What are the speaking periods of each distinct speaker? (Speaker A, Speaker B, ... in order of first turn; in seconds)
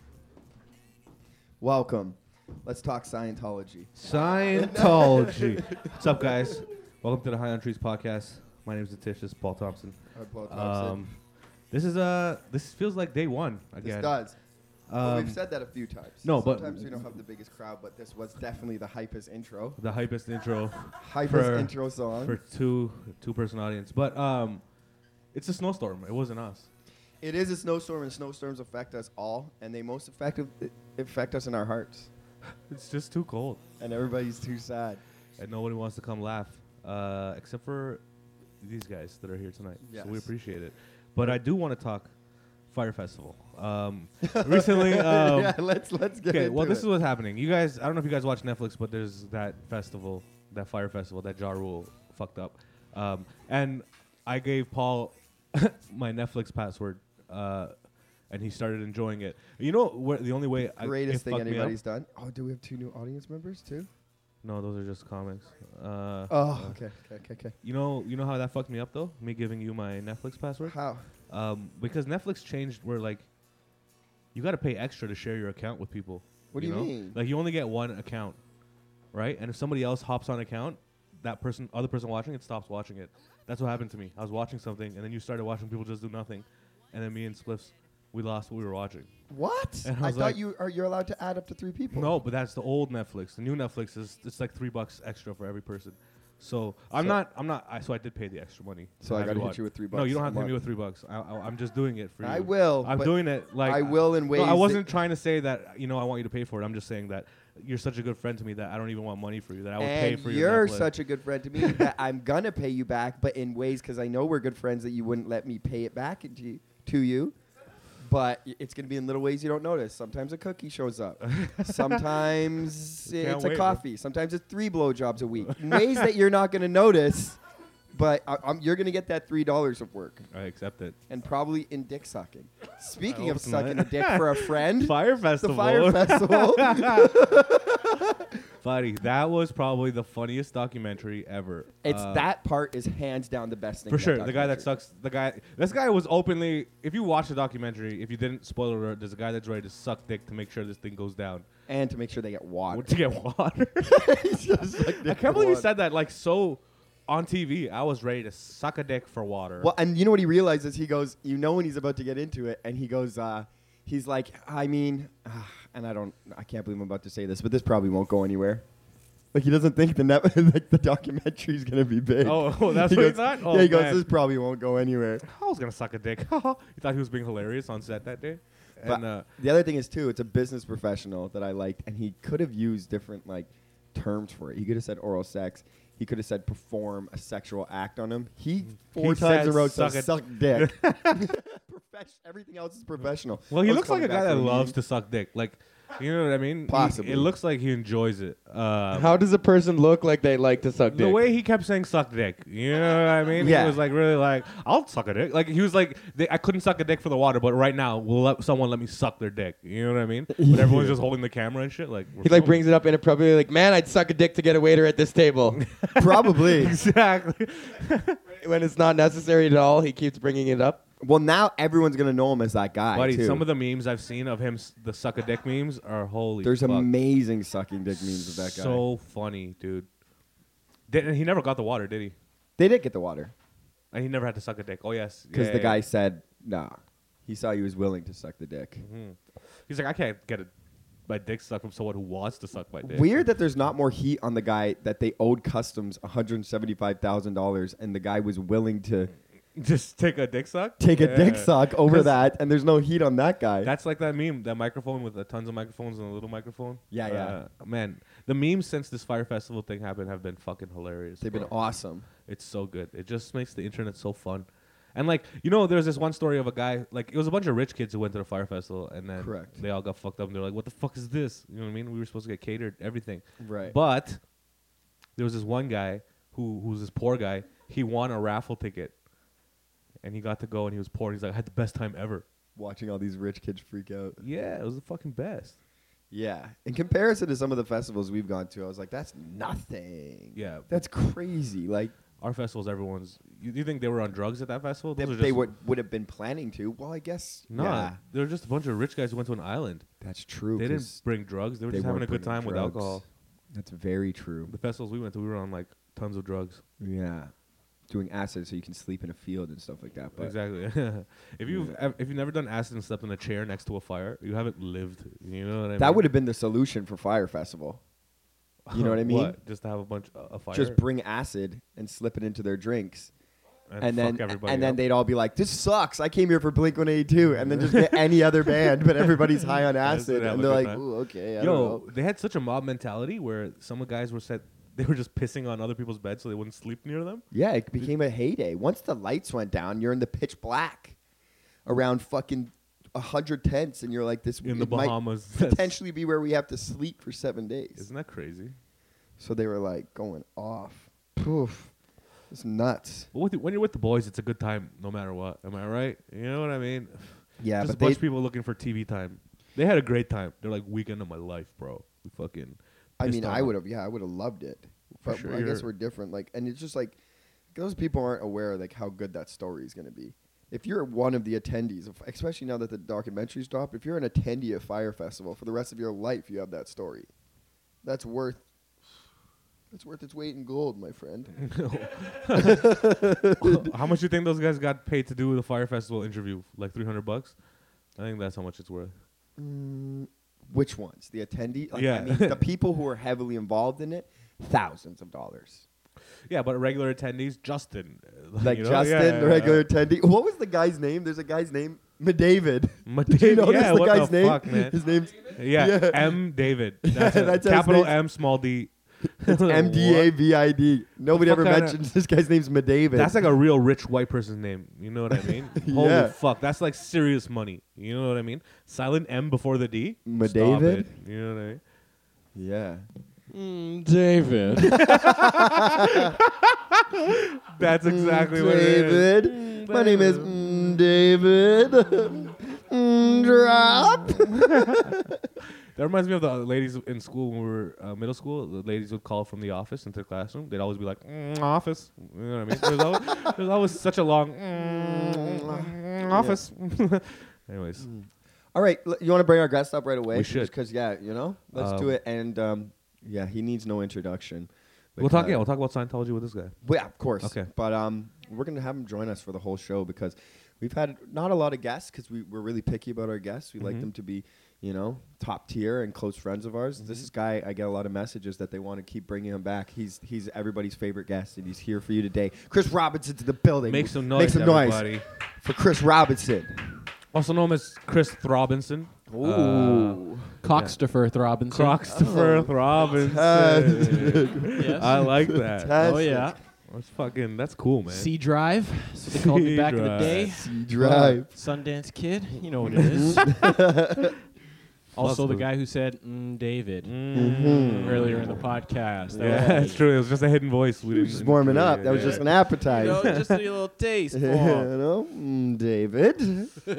Speaker A: 1.6-3.9, 4.5-6.6, 10.1-11.0, 13.8-14.4, 15.0-19.8, 21.0-22.4, 27.2-32.1, 33.8-35.0, 39.8-40.3, 44.2-46.9, 60.6-63.9, 66.3-67.5, 70.6-71.1, 76.5-77.2, 89.3-92.1, 99.0-100.6, 102.2-105.0, 109.8-117.3, 118.0-127.4, 127.9-130.3, 131.1-138.4, 141.8-144.7, 151.7-152.9, 153.8-155.7, 159.6-168.6, 169.3-175.2, 178.8-194.8, 196.7-197.3, 203.3-203.8, 210.3-211.0, 215.9-216.8, 221.0-223.4, 226.4-228.8, 232.6-233.3, 235.3-238.8, 242.8-249.1, 250.8-253.7, 256.9-257.4, 261.2-262.1, 269.1-269.6, 273.4-273.7, 282.6-284.2, 286.1-291.9, 295.0-298.0, 300.0-301.0, 301.7-304.5, 306.8-307.3, 307.9-310.3, 311.4-311.8, 315.8-317.8, 318.7-319.4, 320.5-323.1, 323.8-331.9, 337.3-341.0, 341.6-347.9, 349.2-351.7, 352.3-353.1, 357.4-358.0, 363.0-367.0, 367.5-377.1, 377.8-378.4, 379.7-381.5, 382.3-383.7, 389.4-395.6, 398.4-406.3, 406.8-408.0, 409.2-413.2, 415.2-416.1, 420.0-420.9, 422.3-422.9, 424.7-426.1, 427.6-435.2, 444.5-446.4, 447.8-455.5, 456.6-476.9, 479.1-480.3, 481.8-486.4, 490.3-491.3, 492.9-494.1, 497.1-498.4, 499.1-499.8, 500.9-503.2, 504.1-506.6
Speaker B: 4.0-10.0, 10.5-11.2, 11.7-14.2, 14.9-15.4, 16.2-17.0, 19.8-24.6, 25.3-26.7, 32.7-33.6, 35.4-38.0, 38.6-42.1, 42.7-45.6, 46.3-57.7, 58.3-61.8, 64.4-66.8, 67.6-73.3, 74.3-78.4, 79.1-89.1, 89.8-90.4, 91.9-110.9, 111.6-111.9, 121.2-122.0, 123.0-123.8, 125.5-126.0, 130.3-131.0, 133.1-137.4, 138.6-142.3, 143.9-151.4, 152.7-154.2, 154.8-159.7, 172.2-174.1, 175.2-179.3, 188.8-191.3, 193.5-199.2, 200.9-212.6, 215.5-218.2, 222.9-226.9, 228.4-229.9, 230.9-232.1, 233.9-235.8, 238.8-240.5, 241.1-243.2, 249.5-252.1, 253.6-261.5, 262.2-274.2, 275.2-278.9, 280.0-282.2, 284.2-285.6, 290.3-290.8, 292.2-295.5, 297.5-299.9, 300.6-303.0, 304.5-306.6, 310.2-316.0, 318.7-320.8, 323.7-324.8, 327.4-328.2, 329.8-330.9, 331.4-337.2, 344.4-345.8, 347.8-348.5, 353.1-363.5, 365.0-365.6, 381.4-387.4, 387.9-388.9, 391.7-392.4, 396.3-399.6, 402.9-404.8, 405.4-410.1, 411.1-411.8, 412.9-421.6, 424.7-430.3, 435.7-447.9, 450.1-450.5, 451.6-452.0, 455.0-456.5, 457.2-457.5, 463.6-463.9, 466.8-467.1, 473.6-475.1, 477.1-480.8, 481.5-485.8, 486.7-488.1, 489.1-490.3, 492.6-493.1, 495.0-495.5, 496.8-498.4, 499.2-503.3
Speaker C: 198.9-201.2, 212.2-215.6, 218.3-220.8
Speaker D: 423.3-424.7, 480.4-481.8, 484.5-484.9, 485.8-486.4, 487.9-493.6, 494.9-496.9, 497.8-499.8, 501.9-504.7